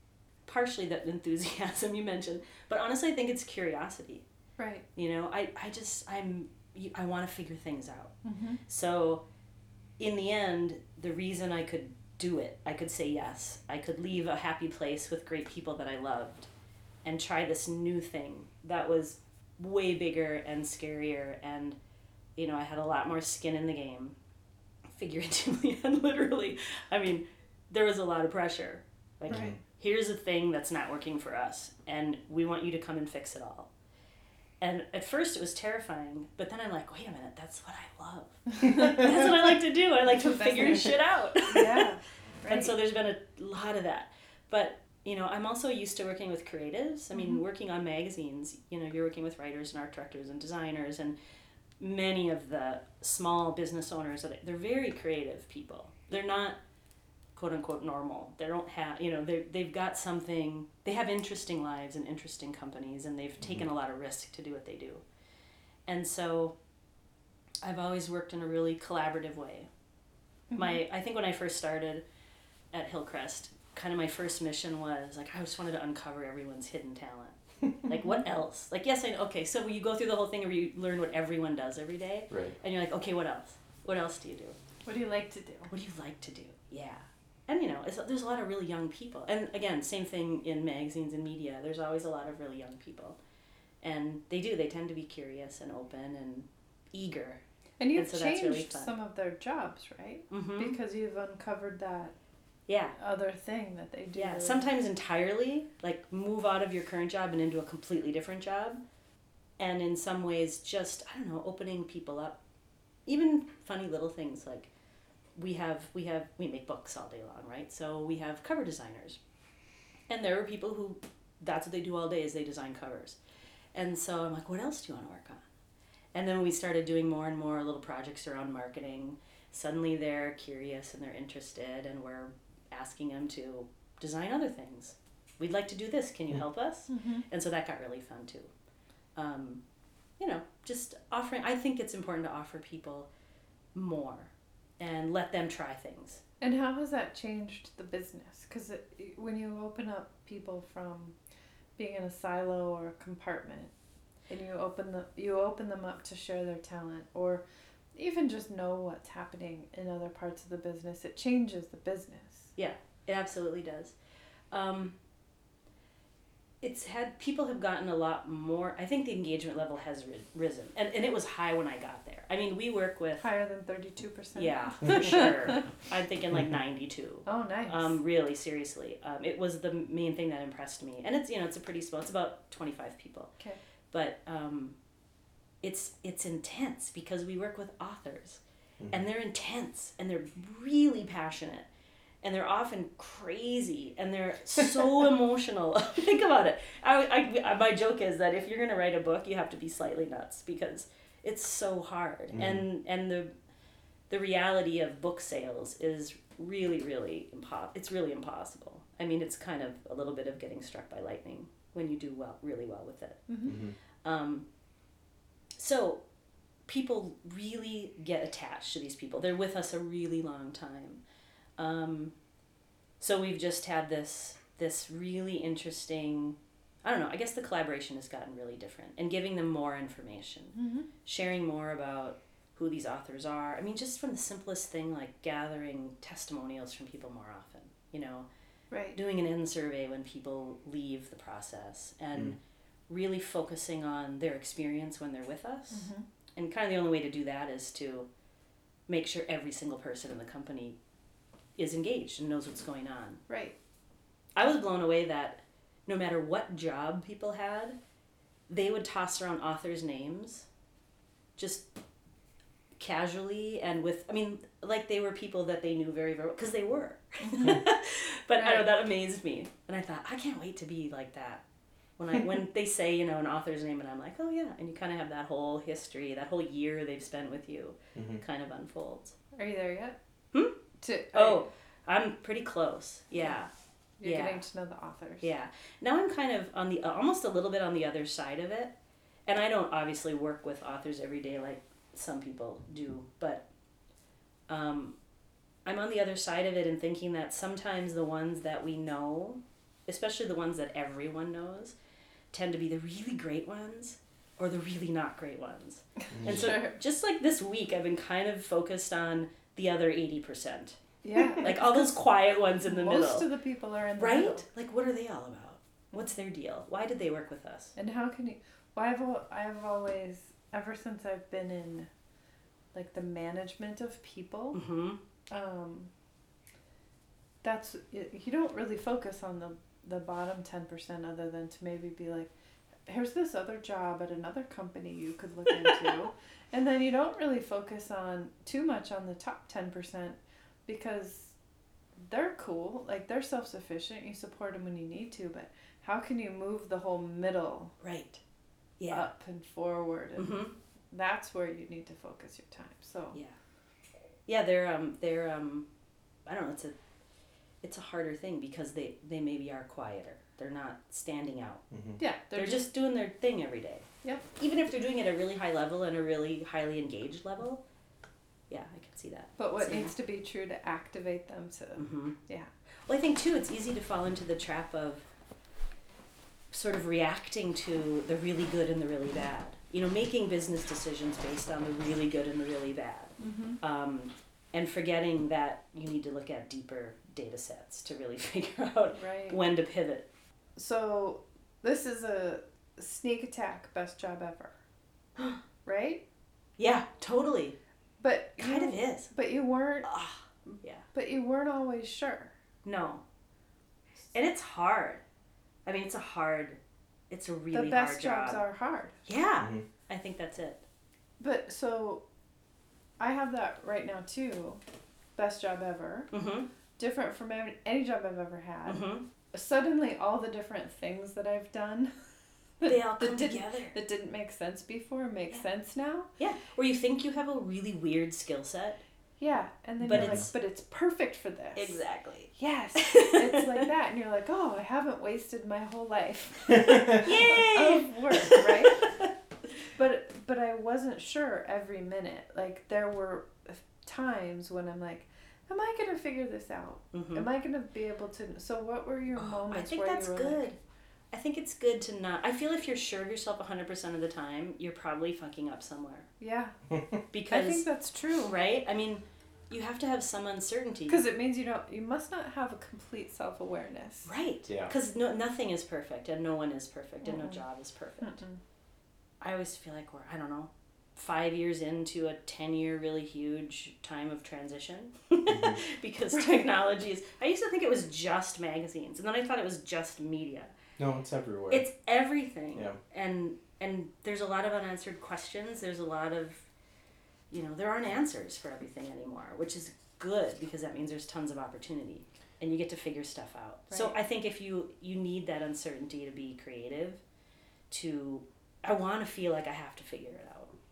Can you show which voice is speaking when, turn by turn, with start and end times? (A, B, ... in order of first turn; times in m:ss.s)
0:00.4-0:04.2 A
0:04.6-0:04.8 B
0:04.9-0:08.1 A
0:08.2-0:08.6 B
0:08.6-0:09.2 A
0:10.0-0:16.5 A
0:17.0-0:21.8 A
0:22.4-0:24.2 A
0:24.9-0:33.7 A
0:29.3-0:29.6 B
0:29.3-0:29.6 C
0:34.6-0:41.8 A
0:40.0-0:42.7 B
0:42.5-0:51.2 A
0:47.1-0:47.4 B
0:51.8-0:56.6 A
0:57.3-1:05.0 A
1:05.9-1:06.6 A
1:07.6-1:09.7 A
1:10.5-1:10.8 B
1:10.6-1:12.0 A
1:12.7-1:24.6 A
1:17.9-1:18.2 B
1:22.3-1:22.6 C
1:24.8-1:25.7 B
1:25.7-1:33.2 A
1:33.8-1:37.4 A
1:37.8-1:42.1 B
1:37.9-1:38.9 A
1:40.3-1:40.8 A
1:42.7-1:43.0 A
1:43.0-1:44.7 B
1:44.1-1:48.8 A
1:49.6-1:52.4 A
1:53.0-1:54.7 A
1:55.4-1:59.2 A
2:00.1-2:03.2 A
2:03.7-2:05.4 A
2:06.1-2:18.5 A
2:16.9-2:17.2 B
2:19.1-2:19.6 A
2:20.2-2:23.1 A
2:23.7-2:26.2 A
2:26.4-2:31.1 B
2:31.8-2:33.7 B
2:34.3-2:37.4 B
2:37.9-2:42.5 B
2:42.6-2:43.9 A
2:44.5-2:45.0 A
2:46.6-2:53.3 A
2:53.2-2:55.5 B
2:54.3-3:03.3 A
2:57.2-2:58.0 B
3:03.9-3:04.8 A
3:05.6-3:11.7 A
3:12.2-3:23.3 A
3:22.3-3:22.6 C
3:24.1-3:33.3 A
3:33.3-3:33.6 B
3:33.4-3:33.7 C
3:34.0-3:34.5 A
3:35.6-3:36.0 A
3:36.7-3:41.0 A
3:41.6-3:42.1 A
3:43.0-3:58.3 A
3:50.5-3:50.9 B
3:58.7-3:59.0 B
3:58.9-4:08.1 A
4:05.7-4:06.0 B
4:08.9-4:10.8 A
4:11.6-4:13.2 A
4:13.3-4:13.6 B
4:14.3-4:17.8 A
4:18.5-4:20.5 A
4:21.4-4:21.7 A
4:22.8-4:31.4 A
4:27.2-4:27.6 B
4:28.4-4:28.7 B
4:32.0-4:39.2 A
4:37.9-4:38.2 C
4:39.3-4:40.0 B
4:40.3-4:40.6 A
4:40.8-4:41.4 B
4:41.1-4:43.5 A
4:44.0-4:45.3 B
4:44.0-4:44.4 A
4:45.2-4:48.7 A
4:49.3-4:53.5 A
4:54.5-4:55.0 A
4:55.6-5:01.7 A
5:02.3-5:10.8 A
5:06.1-5:06.6 C
5:06.1-5:06.8 B
5:11.0-5:11.9 B
5:11.4-5:13.3 A
5:12.6-5:14.4 B
5:14.0-5:17.7 A
5:17.8-5:21.9 B
5:22.7-5:24.6 B
5:24.5-5:25.0 A
5:25.3-5:25.9 B
5:27.4-5:32.3 B
5:32.9-5:41.3 B
5:42.0-5:47.7 B
5:47.8-5:48.2 A
5:48.8-5:49.1 A
5:48.9-5:53.2 B
5:50.2-5:50.5 A
5:54.3-5:55.7 A
5:56.2-5:56.8 A
5:57.6-6:01.6 A
6:01.7-6:02.0 C
6:02.0-6:02.7 B
6:02.3-6:07.6 A
6:08.5-6:09.9 A
6:09.4-6:12.5 B
6:11.8-6:12.2 A
6:12.9-6:15.0 A
6:16.5-6:30.1 A
6:23.2-6:23.6 B
6:29.0-6:29.4 B
6:30.6-6:34.5 B
6:35.6-6:36.0 B
6:36.6-6:37.6 A
6:38.0-6:39.9 B
6:38.4-6:39.1 A
6:39.8-6:40.8 A
6:40.4-6:42.3 B
6:42.6-6:43.0 A
6:44.1-6:45.0 A
6:45.6-6:46.6 A
6:47.1-6:48.4 A
6:47.5-6:49.0 B
6:49.0-6:50.6 A
6:49.4-6:49.6 C
6:51.2-6:52.0 B
6:53.0-6:54.6 B
6:55.2-6:56.1 B
6:56.1-6:56.5 A
6:56.8-7:02.0 B
6:58.7-6:59.0 A
7:02.6-7:06.1 B
7:02.6-7:03.8 A
7:06.2-7:08.8 A
7:09.2-7:11.8 B
7:09.8-7:10.3 A
7:09.9-7:10.3 C
7:11.5-7:13.6 A
7:12.3-7:18.9 B
7:16.6-7:19.1 A
7:19.7-7:30.5 B
7:26.9-7:27.3 A
7:29.2-7:30.6 A
7:31.1-7:36.1 A
7:36.2-7:36.6 B
7:37.1-7:37.7 A
7:37.3-7:38.3 B
7:38.2-7:41.0 A
7:40.9-7:44.1 B
7:44.0-7:48.2 A
7:44.5-7:44.7 C
7:47.0-7:47.4 B
7:48.0-7:48.4 B
7:49.2-8:00.5 A
7:55.3-7:55.6 C
7:56.1-7:56.5 B
8:00.8-8:01.6 C
8:01.5-8:06.4 A
8:07.3-8:17.0 A
8:13.7-8:13.9 B
8:17.7-8:20.5 A